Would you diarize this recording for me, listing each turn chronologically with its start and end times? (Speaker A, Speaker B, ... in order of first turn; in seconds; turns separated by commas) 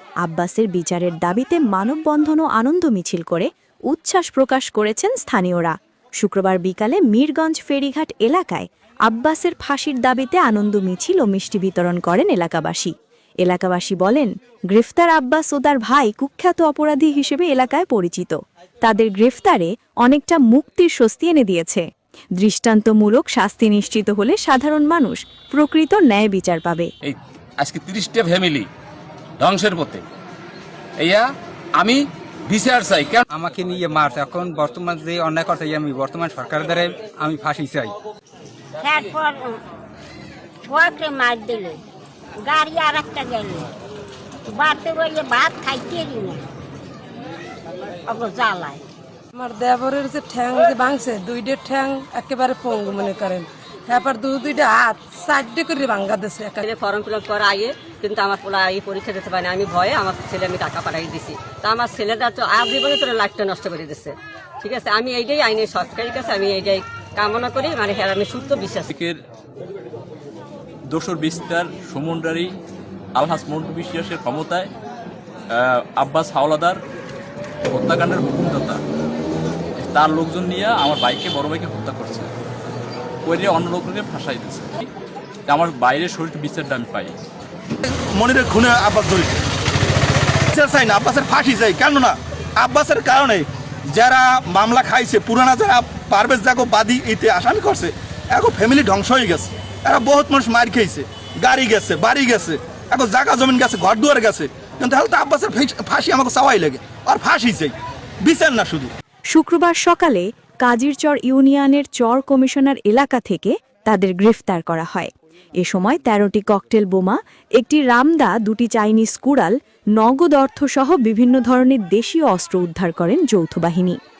Speaker A: 0.2-12.9, Speaker A: 13.4-21.8, Speaker A: 22.4-26.9, Speaker B: 27.0-28.7, Speaker B: 29.4-30.0, Speaker B: 31.0-31.2, Speaker B: 31.8-33.2, Speaker C: 33.3-37.9, Speaker D: 38.8-39.6, Speaker D: 40.7-41.8, Speaker D: 42.4-43.7, Speaker D: 44.5-46.5, Speaker D: 48.1-48.8, Speaker E: 49.3-56.6, Speaker F: 56.6-68.9, Speaker G: 68.9-69.2, Speaker G: 70.9-72.5, Speaker G: 73.2-74.7, Speaker G: 75.5-76.8, Speaker G: 77.7-78.8, Speaker G: 79.8-82.3, Speaker G: 83.2-84.9, Speaker G: 85.5-87.1, Speaker H: 87.9-89.4, Speaker H: 90.5-108.9, Speaker A: 109.3-124.0